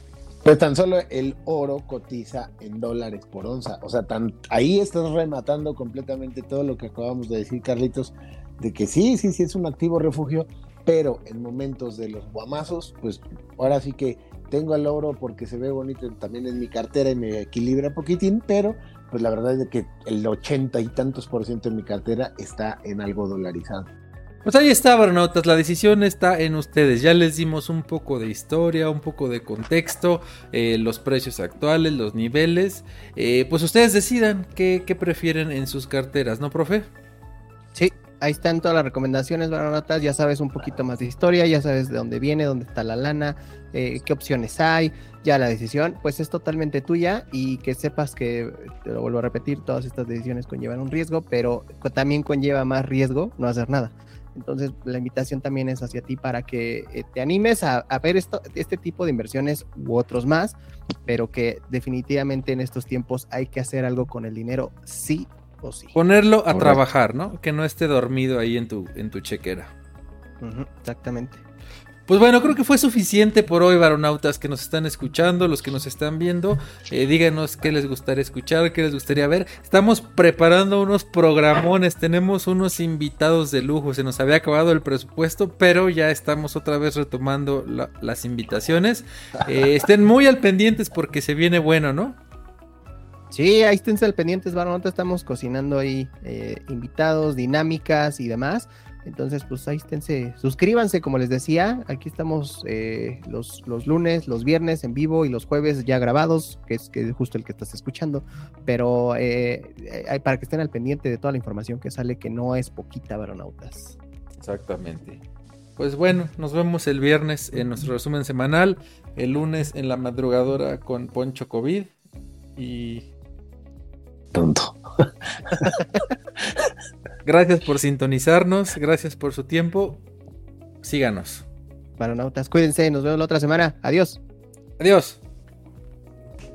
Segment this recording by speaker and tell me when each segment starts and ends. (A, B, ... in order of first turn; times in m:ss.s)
0:00.4-0:23.9 A
0:24.4-0:36.9 B
0:37.8-1:05.9 C
1:05.9-1:09.7 B
1:06.5-1:06.8 A
1:10.4-1:11.4 C
1:12.1-1:32.2 B
1:33.3-1:54.0 C
1:54.4-1:55.2 B
1:55.8-2:01.9 B
2:02.6-2:03.1 B
2:04.3-2:06.1 A
2:07.2-2:10.0 B
2:10.8-2:11.4 B
2:12.0-2:14.2 C
2:14.8-2:15.2 B